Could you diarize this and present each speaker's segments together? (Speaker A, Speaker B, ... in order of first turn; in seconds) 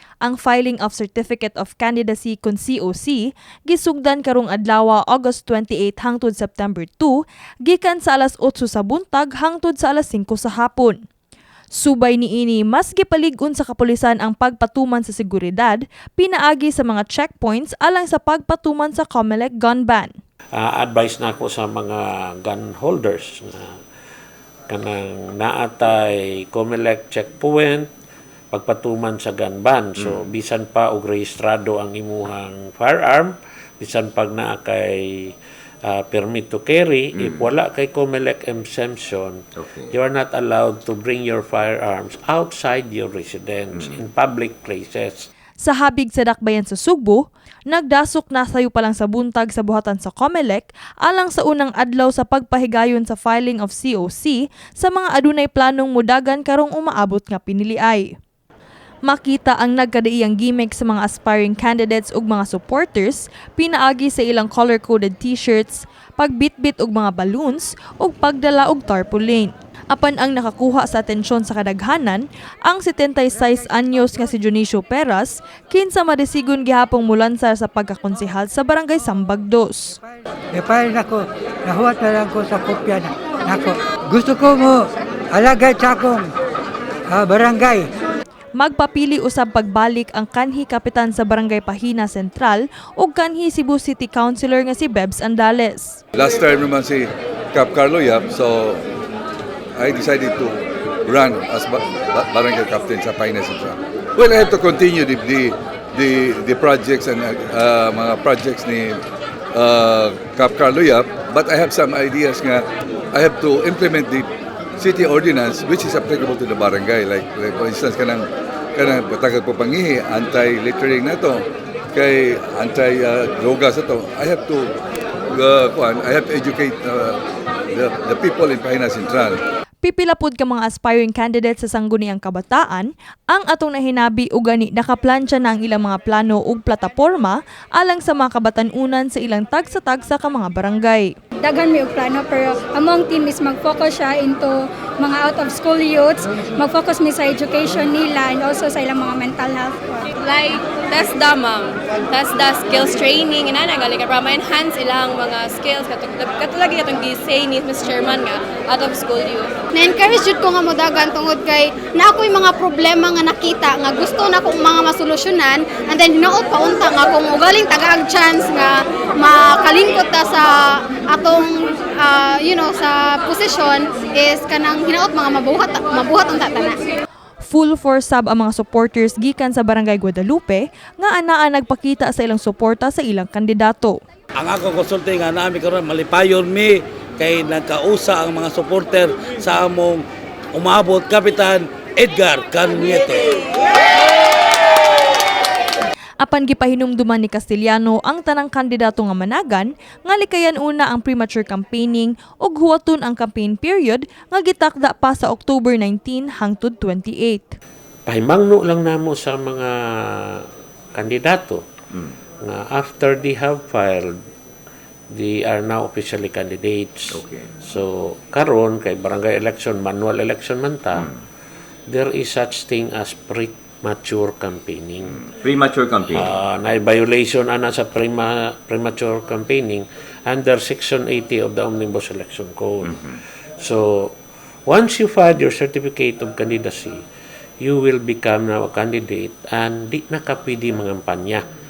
Speaker A: 0.2-7.1, 7.7-11.0, 11.8-20.1, 45.6-58.1, 59.1-80.0, 88.6-96.0, 129.8-141.1, 177.5-184.0, 196.2-207.5
Speaker B: 20.5-23.8, 24.7-27.9, 28.5-35.3, 35.9-45.3, 208.1-211.6, 212.4-214.2, 215.1-221.1, 221.9-225.3, 226.1-237.0, 237.6-241.5
Speaker C: 30.0-30.3, 37.2-37.5, 39.6-40.0, 217.1-217.5, 225.1-226.4, 232.8-233.2
Speaker D: 80.5-86.3, 87.1-87.9
Speaker E: 96.2-98.8, 99.8-109.0, 109.5-114.3, 114.8-121.4, 121.9-124.7, 125.3-127.2, 127.8-129.4
Speaker F: 141.4-150.0
Speaker G: 150.2-159.6
Speaker H: 159.7-176.9
Speaker I: 184.4-190.0, 190.6-193.3